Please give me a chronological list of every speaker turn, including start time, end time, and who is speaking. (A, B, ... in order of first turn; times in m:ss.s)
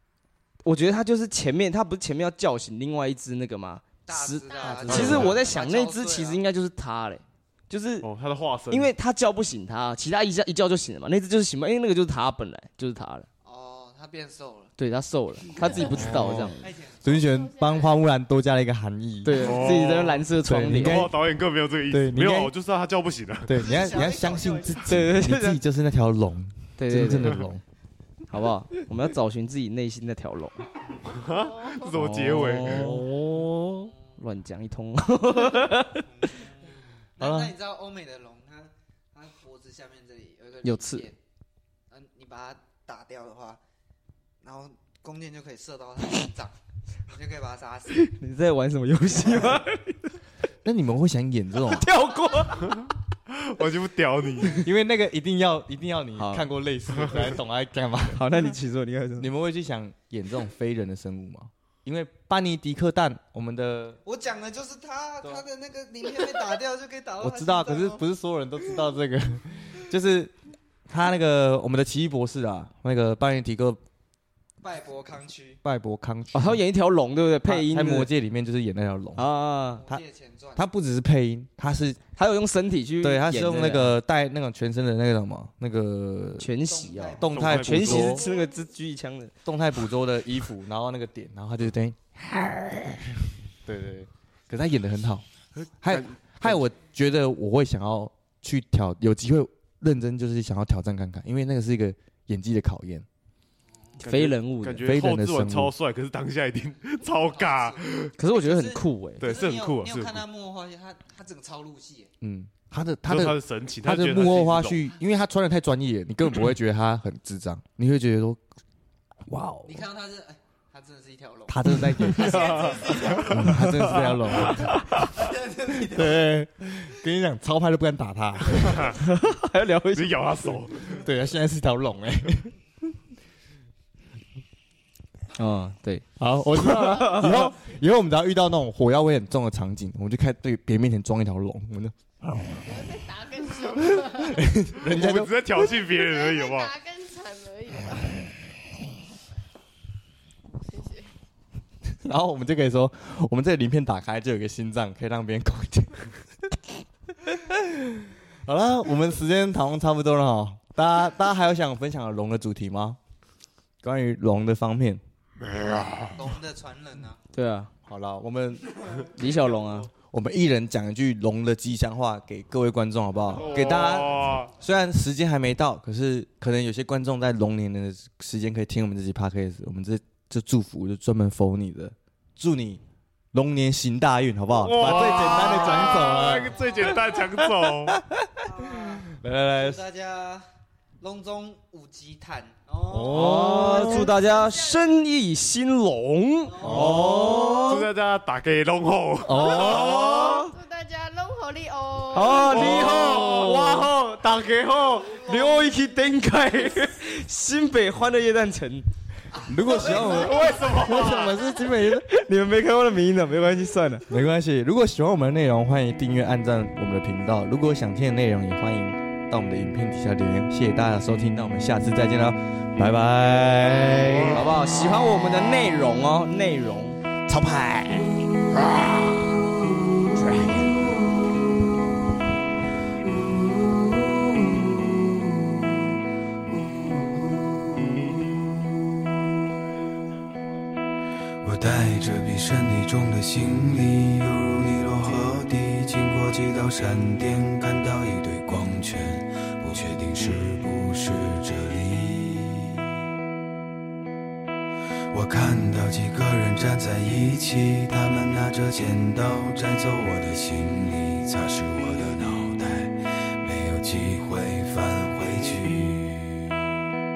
0:00.6-0:08.1 A
0:04.1-0:06.4 B
0:04.5-0:05.0 C
0:04.9-0:05.4 D
0:04.9-0:05.3 E
0:08.0-0:08.9 D
0:08.7-0:13.3 A
0:13.4-0:14.7 B
0:14.8-0:16.6 A
0:15.8-0:19.8 E
0:16.1-0:17.2 B
0:17.2-0:18.0 C
0:19.2-0:21.0 A
0:19.3-0:23.6 D
0:20.4-0:21.2 E
0:21.9-0:22.5 E
0:23.4-0:27.6 E
0:23.5-0:24.8 B
0:24.8-0:25.6 A
0:26.8-0:27.4 A
0:28.3-0:30.7 A
0:31.0-0:32.9 D
0:31.4-0:31.9 C
0:31.9-0:36.0 A
0:32.6-0:33.9 E
0:35.9-0:41.2 B
0:37.2-0:37.5 E
0:40.6-0:41.0 A
0:41.9-0:43.6 B
0:44.4-0:46.5 B
0:47.1-0:48.0 B
0:47.9-0:50.1 A
0:49.2-0:49.6 B
0:50.6-0:51.9 E
0:51.6-0:52.8 A
0:53.3-0:54.6 D
0:54.6-0:58.3 E
0:56.2-0:56.5 A
0:58.1-0:59.3 A
0:59.2-1:04.0 E
1:04.0-1:08.0 B
1:07.2-1:10.3 E
1:10.9-1:13.8 E
1:14.6-1:15.6 B
1:15.6-1:16.6 E
1:16.3-1:18.1 A
1:17.4-1:19.2 E
1:19.2-1:19.8 A
1:19.7-1:20.6 B
1:20.6-1:22.0 E
1:22.2-1:23.9 A
1:23.0-1:26.5 E
1:26.4-1:29.3 A
1:26.7-1:27.4 B
1:27.2-1:28.2 E
1:27.3-1:28.2 D
1:29.4-1:35.2 E
1:35.6-1:36.6 D
1:35.8-1:43.0 E
1:43.7-1:44.2 B
1:44.0-1:44.9 A
1:44.1-1:48.1 D
1:44.8-1:45.7 E
1:47.2-1:52.1 B
1:48.2-1:49.2 A
1:49.2-1:50.2 D
1:52.2-1:58.4 E
1:53.0-1:54.8 D
1:59.3-1:59.8 E
1:59.6-2:03.6 B
2:01.5-2:04.9 E
2:02.2-2:04.5 D
2:04.5-2:06.4 B
2:05.8-2:09.0 E
2:08.6-2:09.0 D
2:09.0-2:10.5 A
2:09.9-2:11.0 D
2:10.9-2:12.5 E
2:15.3-2:17.5 A
2:16.2-2:21.9 E
2:22.6-2:24.6 C
2:23.9-2:25.3 E
2:24.8-2:26.7 D
2:25.9-2:28.2 C
2:30.5-2:31.1 C
2:31.9-2:36.6 E
2:37.2-2:43.0 E
2:43.8-2:45.0 E
2:45.6-2:46.0 D
2:46.1-2:47.2 B
2:47.3-2:47.7 A
2:47.9-2:48.9 E
2:49.1-2:49.9 A
2:50.0-3:02.8 E
2:53.4-2:54.5 D
3:03.3-3:09.8 E
3:04.6-3:08.0 D
3:08.4-3:10.4 B
3:11.0-3:13.8 B
3:12.9-3:14.1 E
3:13.1-3:17.7 A
3:13.8-3:14.9 C
3:16.4-3:17.1 B
3:16.6-3:17.9 E
3:17.6-3:20.3 D
3:19.2-3:20.4 E
3:19.5-3:20.5 A
3:19.6-3:23.0 C
3:22.1-3:28.9 A
3:22.3-3:23.9 D
3:25.0-3:26.0 B
3:29.3-3:30.9 B
3:29.4-3:32.0 E
3:30.1-3:31.4 D
3:31.9-3:34.1 A
3:34.1-3:44.6 E
3:44.3-3:47.0 A
3:47.3-3:49.4 E
3:50.0-3:50.7 E
3:53.8-3:54.9 F
3:56.6-3:58.3 F
4:01.4-4:12.9 F
4:15.1-4:26.6 F